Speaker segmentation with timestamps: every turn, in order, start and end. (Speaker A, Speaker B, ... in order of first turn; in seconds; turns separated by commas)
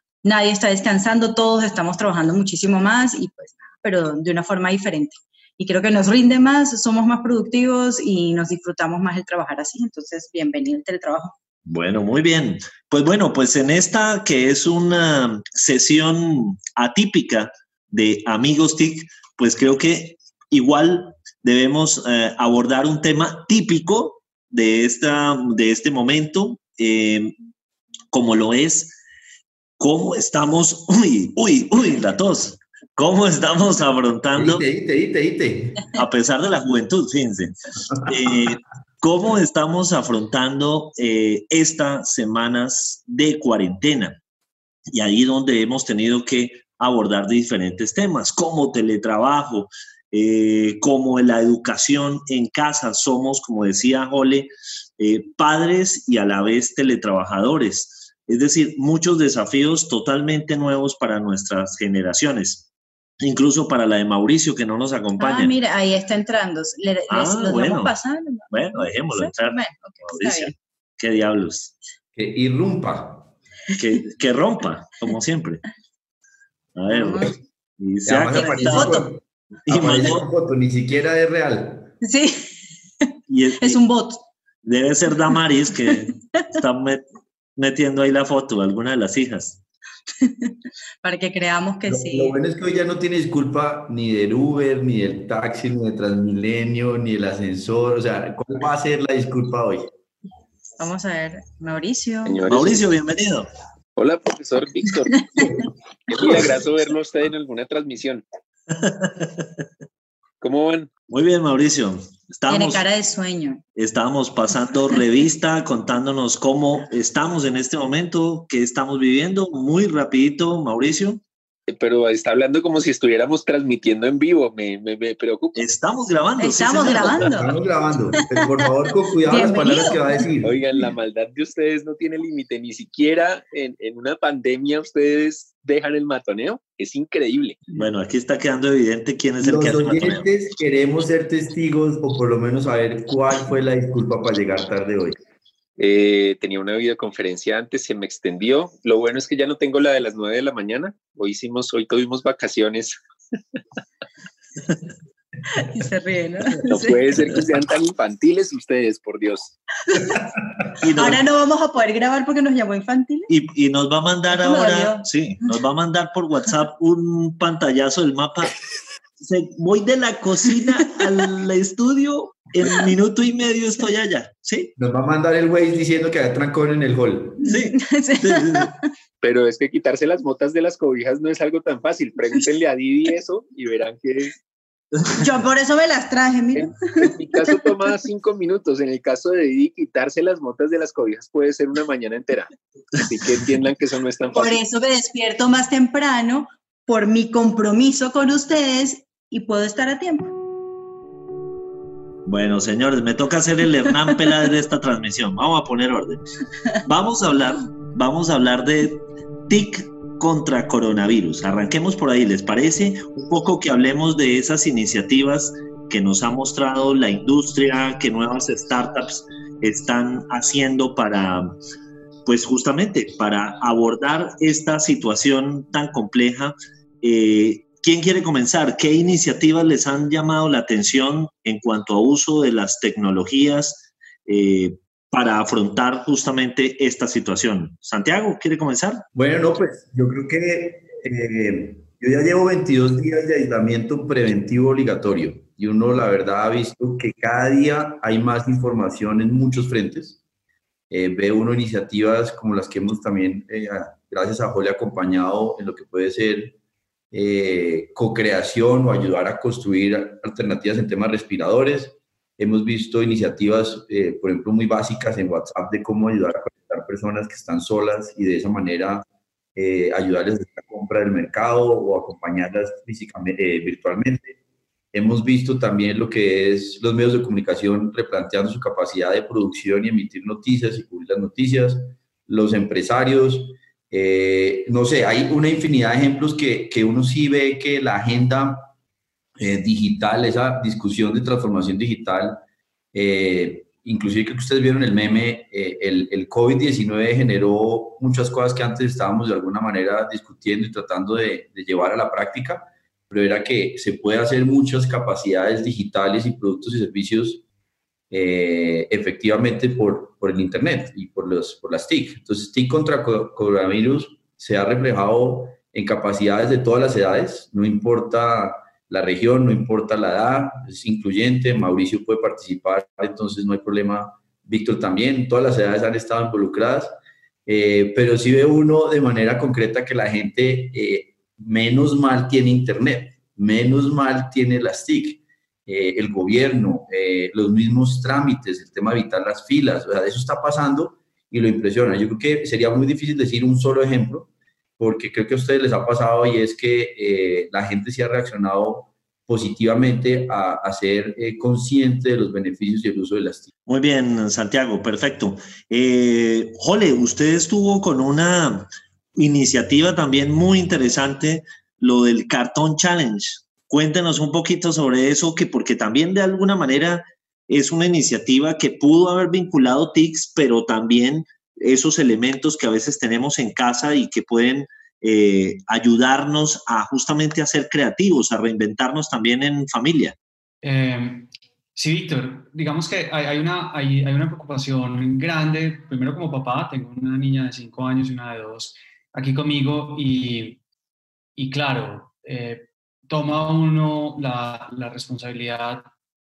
Speaker A: 0.2-11.4, Speaker B: 11.7-27.4, Speaker B: 28.1-29.0, Speaker B: 29.8-34.6, Speaker C: 34.4-35.9, Speaker B: 36.0-44.2, Speaker B: 44.9-62.7, Speaker B: 63.2-65.5, Speaker A: 65.2-70.5, Speaker B: 67.1-67.9, Speaker B: 68.5-71.7, Speaker C: 72.2-73.3, Speaker B: 73.8-75.6, Speaker B: 76.8-79.1, Speaker A: 76.9-77.3, Speaker C: 78.0-81.9, Speaker A: 78.3-79.0, Speaker B: 79.7-80.3, Speaker A: 82.0-82.5, Speaker B: 83.3-83.8, Speaker A: 83.6-84.2, Speaker B: 84.7-87.0, Speaker B: 87.6-89.6, Speaker A: 90.2-92.3, Speaker C: 91.8-99.9, Speaker A: 100.8-102.5, Speaker D: 102.2-102.8, Speaker B: 102.5-103.5, Speaker D: 104.0-105.5, Speaker D: 106.1-108.2, Speaker A: 106.2-106.5, Speaker B: 108.7-109.5, Speaker D: 110.4-110.9, Speaker B: 111.1-112.8, Speaker A: 112.5-113.6, Speaker B: 113.8-121.2, Speaker D: 121.7-125.6, Speaker B: 125.5-127.3, Speaker A: 126.4-127.6, Speaker C: 127.2-130.6, Speaker A: 129.2-130.2, Speaker D: 130.4-137.6, Speaker B: 137.7-140.2, Speaker C: 139.4-145.2, Speaker D: 145.8-153.0, Speaker A: 155.5-157.1, Speaker D: 156.7-159.5, Speaker A: 159.9-160.3, Speaker B: 160.8-161.2, Speaker A: 160.9-163.3, Speaker B: 163.3-168.5, Speaker A: 164.3-165.5, Speaker B: 169.2-174.7, Speaker C: 174.8-177.4, Speaker B: 177.4-178.7, Speaker A: 177.5-178.8, Speaker D: 179.2-184.3, Speaker A: 185.2-187.7, Speaker D: 186.6-194.6, Speaker A: 194.3-200.3, Speaker B: 202.3-206.2, Speaker B: 206.9-221.5, Speaker B: 222.3-239.0, Speaker C: 239.2-250.2, Speaker C: 250.9-256.6, Speaker C: 257.1-274.4, Speaker C: 274.9-288.7, Speaker C: 289.4-292.4, Speaker C: 292.9-307.4, Speaker C: 308.1-326.9, Speaker C: 327.5-353.5, Speaker B: 353.7-380.2, Speaker E: 380.6-390.6, Speaker E: 391.4-395.9